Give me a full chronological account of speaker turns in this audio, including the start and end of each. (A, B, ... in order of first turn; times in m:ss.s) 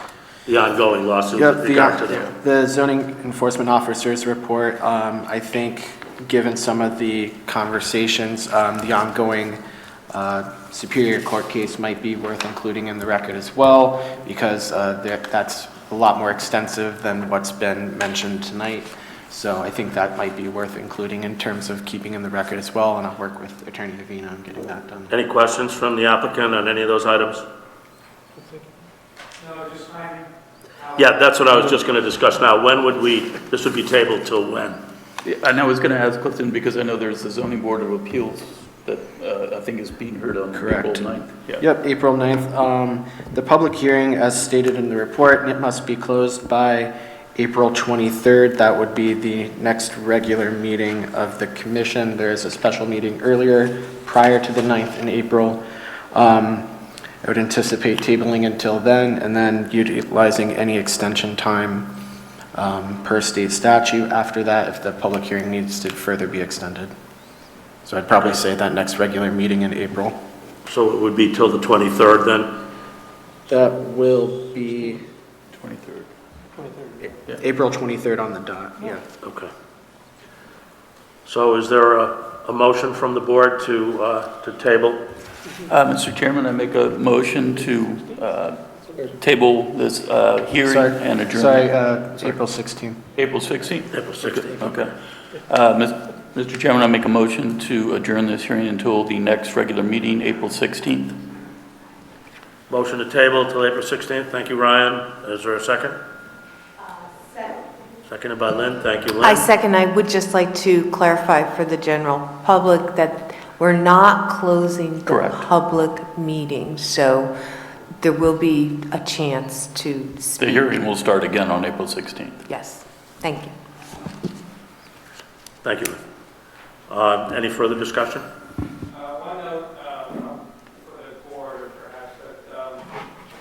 0:00.5-0:02.3 A
0:01.4-0:09.6 B
0:10.1-0:25.1 B
0:25.1-0:27.5 A
0:29.4-0:31.1 C
0:31.0-0:34.8 A
0:35.2-0:41.6 D
0:40.5-0:55.6 B
0:56.1-0:56.7 B
0:57.2-1:02.0 B
1:02.6-1:06.9 B
1:07.9-1:10.2 B
1:10.7-1:12.6 A
1:13.5-1:15.0 B
1:15.5-1:16.1 D
1:17.4-1:19.0 B
1:19.2-1:19.5 A
1:21.3-1:25.1 A
1:25.7-1:28.7 D
1:29.2-1:31.7 D
1:30.6-1:33.0 B
1:33.2-1:41.2 D
1:33.9-1:34.7 A
1:42.7-1:46.0 A
1:48.1-1:49.5 A
1:49.2-1:57.3 E
1:55.1-1:55.5 D
1:58.0-2:00.8 E
2:00.4-2:02.4 D
2:02.5-2:03.5 E
2:05.6-2:06.0 A
2:06.9-2:08.3 A
2:08.9-2:12.9 C